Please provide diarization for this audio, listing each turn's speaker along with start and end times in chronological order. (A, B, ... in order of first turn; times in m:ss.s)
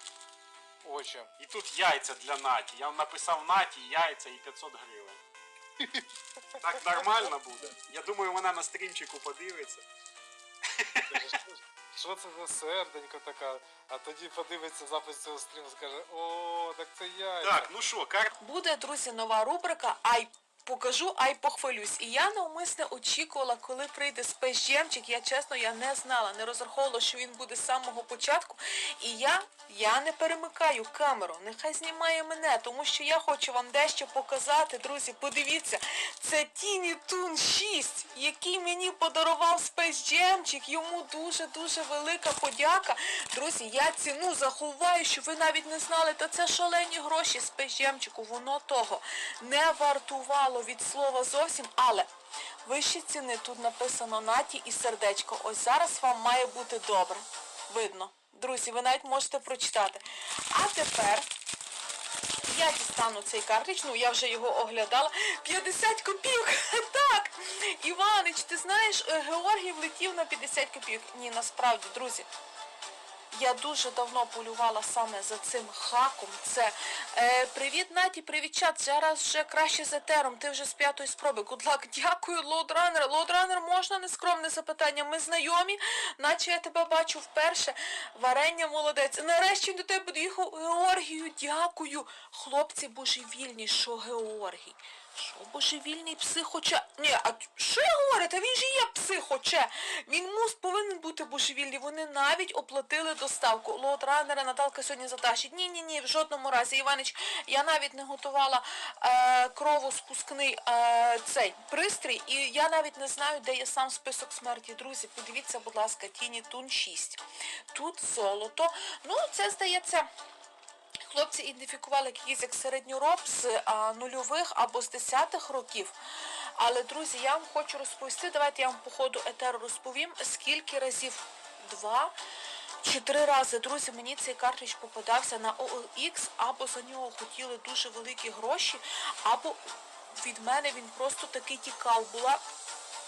0:00.8-0:01.3 A
0:01.4-0:05.2 B
0:05.8-0:07.3 A
0:06.6-0:09.8 B
0:10.7-0:11.3 B
0:11.1-0:17.7 A
0:17.4-0:18.3 B
0:18.4-0:52.1 C
0:52.6-1:01.3 C
1:02.5-1:12.3 C
1:13.3-2:00.1 C
2:01.1-2:05.9 C
2:06.6-2:12.1 C
2:12.8-2:19.6 C
2:20.2-2:22.4 C